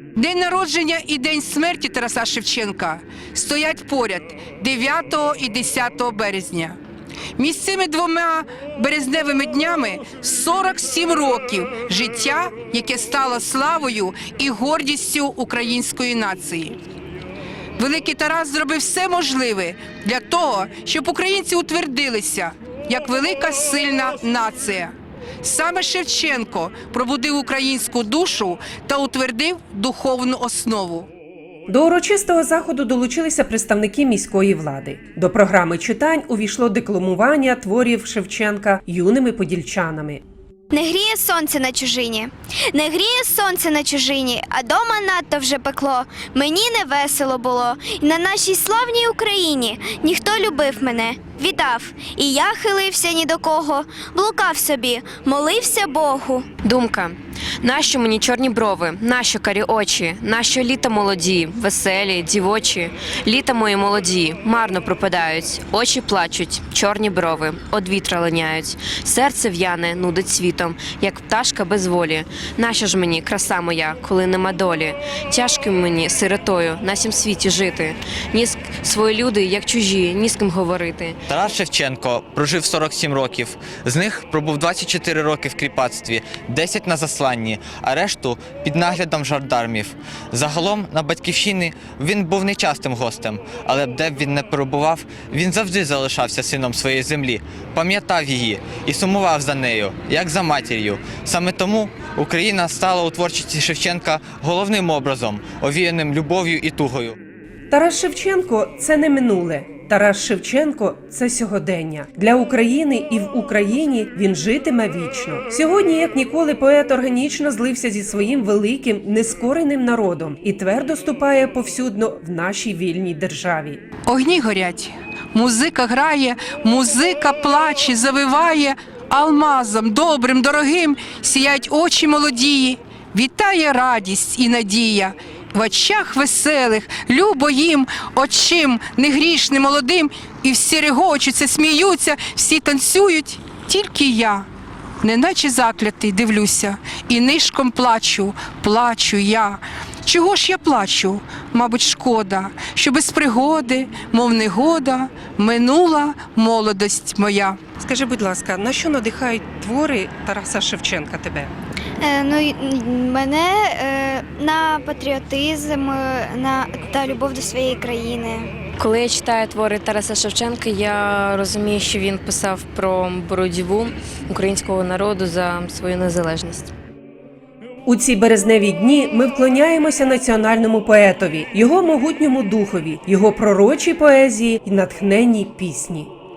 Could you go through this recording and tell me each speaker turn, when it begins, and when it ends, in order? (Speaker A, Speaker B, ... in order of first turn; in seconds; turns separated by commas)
Speaker A: 0.1-6.8, Speaker A: 7.4-16.8, Speaker A: 17.8-31.1, Speaker B: 31.7-40.2, Speaker C: 40.7-56.5, Speaker D: 56.6-81.2, Speaker E: 81.3-107.2, Speaker B: 107.7-123.8, Speaker A: 124.1-144.5, Speaker A: 145.0-157.6, Speaker B: 157.8-161.5, Speaker C: 162.0-168.5, Speaker D: 168.8-176.7, Speaker B: 177.8-186.1